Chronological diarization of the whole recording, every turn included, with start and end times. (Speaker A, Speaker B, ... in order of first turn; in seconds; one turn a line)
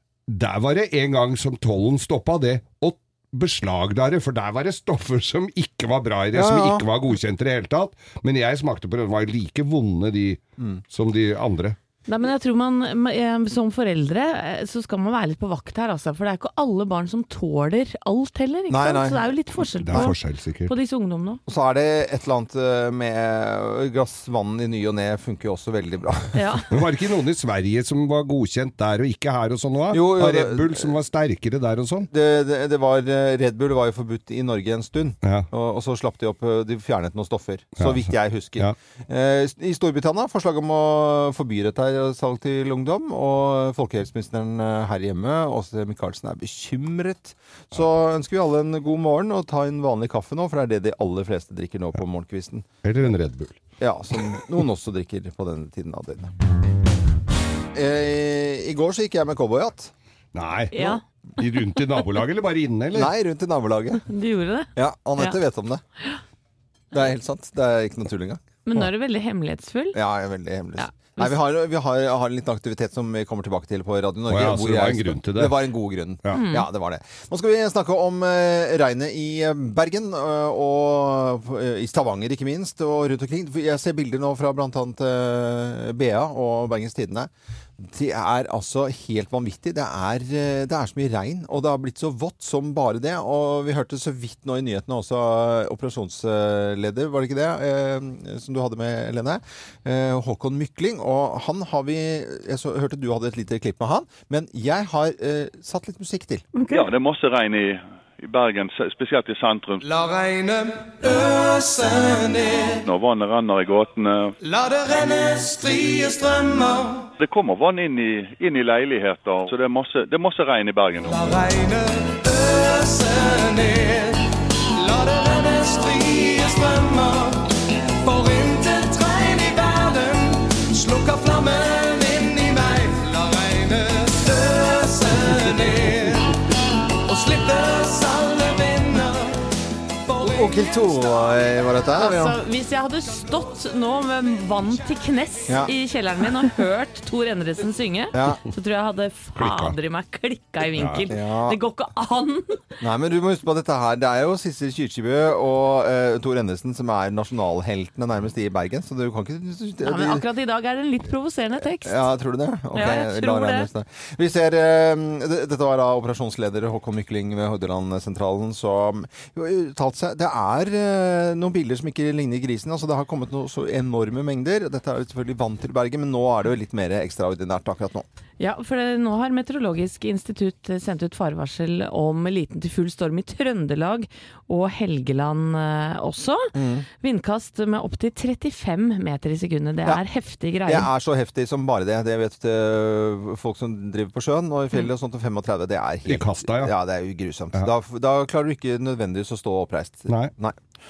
Speaker A: 0.3-11.8
Speaker B: 6.3-6.8
Speaker B: 10.6-10.8
Speaker C: 12.1-21.4
Speaker B: 18.7-19.3
Speaker A: 19.8-20.7
Speaker B: 21.5-26.6
Speaker C: 26.3-26.7
Speaker A: 26.7-32.1
Speaker B: 29.9-30.9
Speaker B: 32.1-52.7
Speaker A: 37.8-38.0
Speaker A: 52.8-53.6
Speaker B: 53.8-56.3
Speaker B: 57.7-59.9
Speaker A: 60.3-63.1
Speaker C: 60.7-61.0
Speaker B: 62.9-64.0
Speaker C: 64.1-65.4
Speaker B: 64.8-65.8
Speaker B: 66.9-68.4
Speaker C: 68.7-70.0
Speaker B: 69.9-106.5
Speaker C: 70.8-71.3
Speaker A: 74.3-75.6
Speaker C: 76.3-76.7
Speaker D: 106.7-109.8
Speaker E: 109.8-112.8
Speaker D: 112.8-114.3
Speaker E: 114.4-117.1
Speaker D: 117.2-121.3
Speaker E: 121.0-136.3
Speaker E: 137.0-139.4
Speaker E: 140.1-140.6
Speaker B: 140.2-142.4
Speaker C: 141.9-152.6
Speaker B: 145.5-145.7
Speaker B: 148.1-148.4
Speaker A: 149.3-149.8
Speaker A: 150.7-151.1
Speaker B: 151.1-151.6
Speaker B: 152.8-160.2
Speaker C: 159.8-162.1
Speaker B: 161.8-178.1
Speaker C: 162.7-163.7
Speaker C: 178.4-190.9
Speaker B: 186.5-186.8
Speaker B: 190.6-200.6
Speaker A: 196.1-196.7